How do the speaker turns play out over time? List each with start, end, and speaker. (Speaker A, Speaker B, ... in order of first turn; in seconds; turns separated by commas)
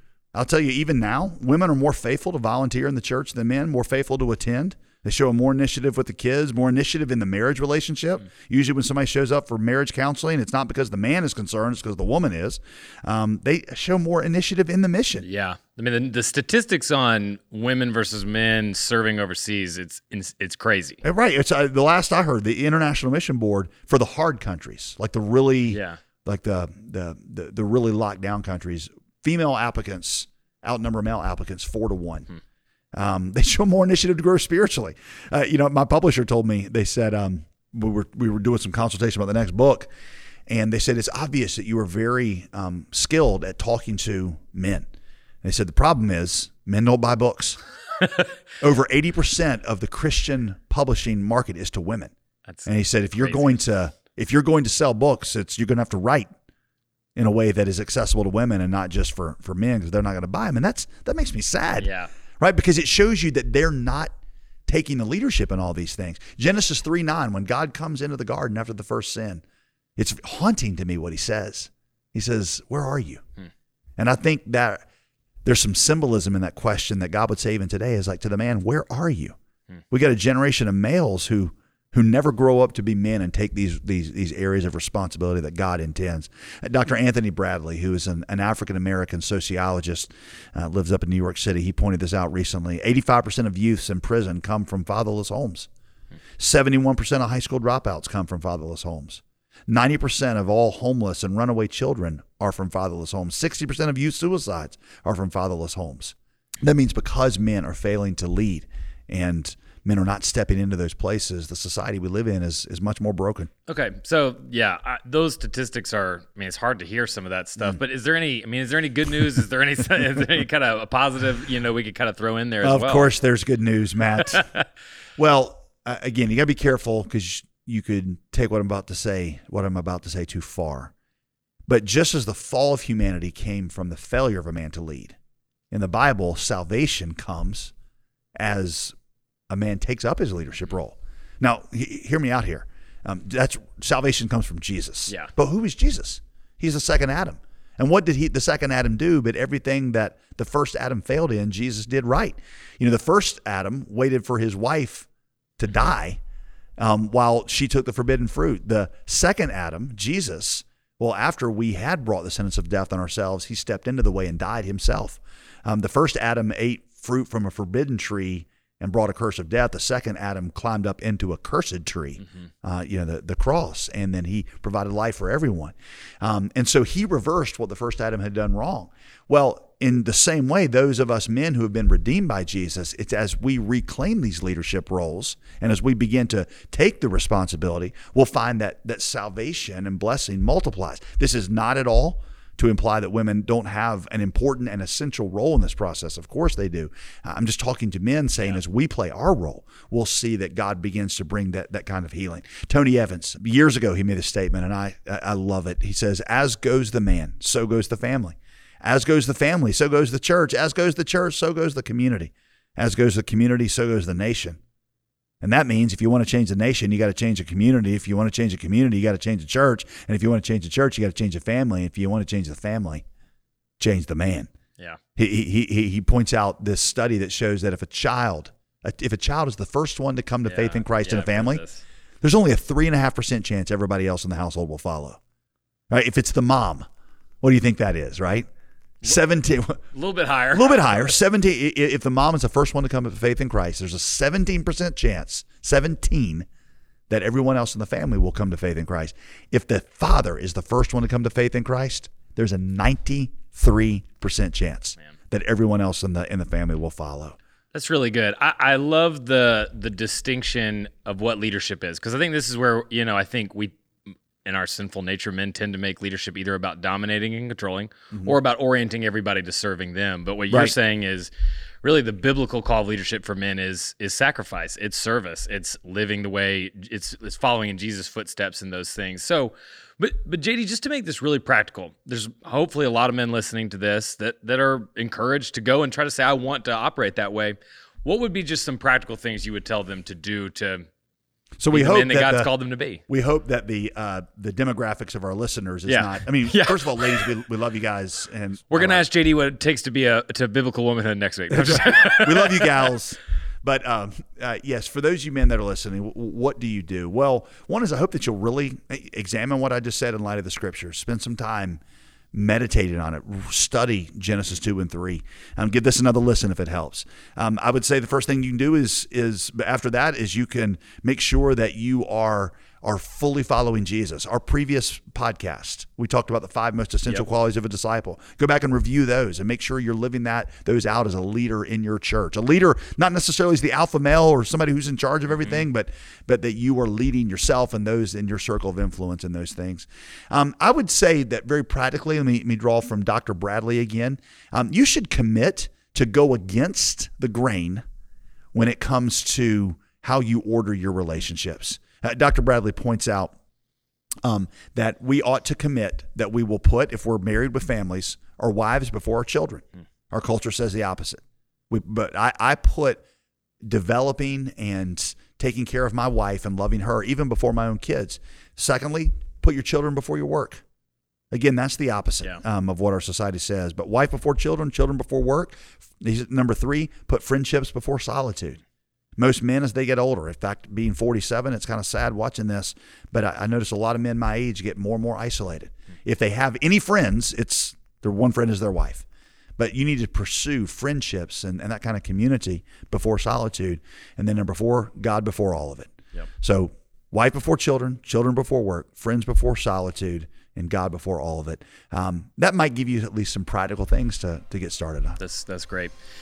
Speaker A: 0.3-15.2, Speaker B: 15.2-21.0, Speaker A: 21.0-32.3, Speaker B: 25.7-26.0, Speaker A: 32.9-39.9, Speaker A: 40.5-44.9, Speaker A: 45.4-47.6, Speaker A: 48.6-52.1, Speaker B: 52.5-53.6, Speaker A: 52.6-56.3, Speaker A: 57.1-64.1, Speaker B: 61.8-62.1, Speaker A: 64.7-69.4, Speaker A: 70.0-73.2, Speaker A: 74.0-74.8, Speaker A: 75.4-79.3, Speaker A: 79.9-95.7, Speaker A: 96.4-113.5, Speaker B: 113.7-123.1, Speaker A: 122.6-124.5, Speaker B: 124.2-124.6, Speaker A: 125.2-130.9, Speaker A: 131.7-135.2, Speaker A: 135.7-137.7, Speaker A: 138.4-138.9, Speaker A: 139.5-155.1, Speaker A: 155.6-156.2, Speaker A: 156.8-214.6, Speaker A: 215.4-223.0, Speaker A: 223.8-224.5, Speaker A: 225.2-231.6, Speaker B: 230.4-231.8, Speaker A: 232.2-235.2, Speaker A: 235.9-236.8, Speaker A: 237.4-238.5, Speaker A: 239.0-239.8, Speaker B: 239.9-241.2, Speaker A: 240.5-246.4, Speaker A: 247.1-257.4, Speaker B: 257.7-263.8, Speaker B: 264.4-271.3, Speaker A: 268.1-268.4, Speaker A: 270.5-270.7, Speaker B: 271.8-290.9, Speaker A: 291.6-292.5, Speaker B: 291.7-293.0, Speaker A: 293.1-299.1, Speaker B: 295.9-297.3, Speaker B: 298.7-302.8, Speaker A: 301.5-311.8, Speaker A: 312.3-347.8, Speaker B: 335.3-335.6, Speaker A: 348.5-353.3, Speaker A: 354.2-363.0, Speaker A: 363.6-370.6, Speaker A: 371.3-378.6, Speaker A: 379.2-389.0, Speaker A: 389.6-405.2, Speaker B: 405.2-406.0